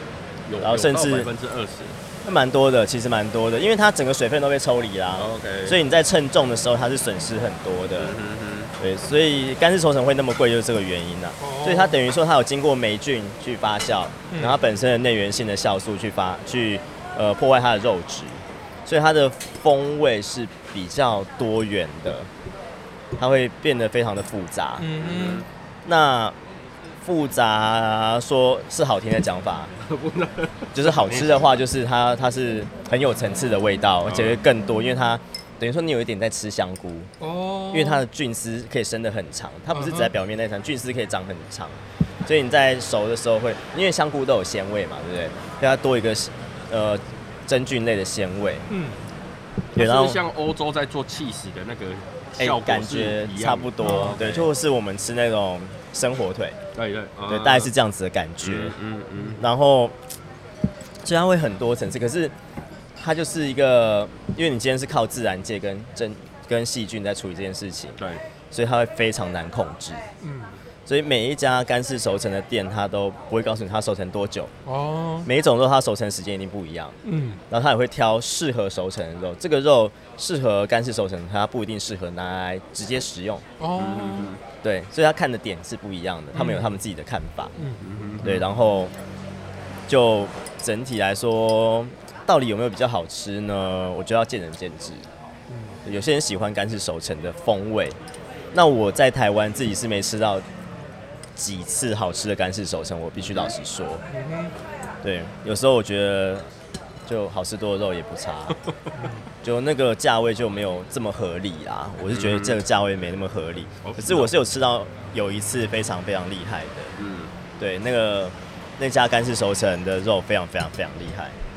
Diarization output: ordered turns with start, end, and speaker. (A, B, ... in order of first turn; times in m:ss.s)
0:00.4-0:02.0 A
0:00.6-0:01.3 B
0:02.2-0:08.2 B
0:05.2-0:05.8 A
0:08.0-0:08.7 A
0:08.8-0:22.3 B
0:11.4-0:12.0 C
0:14.3-0:14.6 C
0:23.2-0:24.9 B
0:24.8-0:25.4 C
0:25.0-0:25.5 A
0:25.8-0:26.4 B
0:27.0-0:29.7 B
0:29.8-0:31.6 A
0:30.7-0:37.1 B
0:34.0-0:34.4 A
0:37.2-0:38.0 C
0:37.7-0:48.7 B
0:39.7-0:40.1 C
0:48.7-0:49.0 C
0:49.7-0:50.2 B
0:49.7-0:54.5 A
0:52.4-0:56.6 B
0:53.8-0:54.2 C
0:56.7-0:57.7 A
0:57.3-0:58.8 B
0:58.4-0:59.4 A
0:59.4-1:00.0 B
1:01.0-1:02.3 B
1:03.0-1:08.0 B
1:08.0-1:08.2 A
1:08.5-1:10.0 B
1:10.2-1:10.6 C
1:10.8-1:14.5 B
1:14.6-1:15.3 C
1:15.2-1:17.0 B
1:17.0-1:17.4 C
1:17.5-1:23.4 B
1:23.6-1:24.3 C
1:23.7-1:24.4 A
1:24.6-1:27.5 B
1:26.3-1:26.8 C
1:27.6-1:27.8 C
1:27.8-1:28.4 A
1:28.2-1:28.9 B
1:29.9-1:35.1 B
1:35.5-1:35.8 C
1:35.8-1:38.0 B
1:38.5-1:40.4 B
1:41.4-1:44.0 B
1:44.1-1:44.5 C
1:45.0-1:46.4 B
1:47.1-1:48.6 B
1:49.0-1:49.2 C
1:49.4-1:56.9 B
1:52.1-1:52.6 A
1:53.8-1:54.4 A
1:57.0-1:57.3 A
1:57.6-2:01.4 B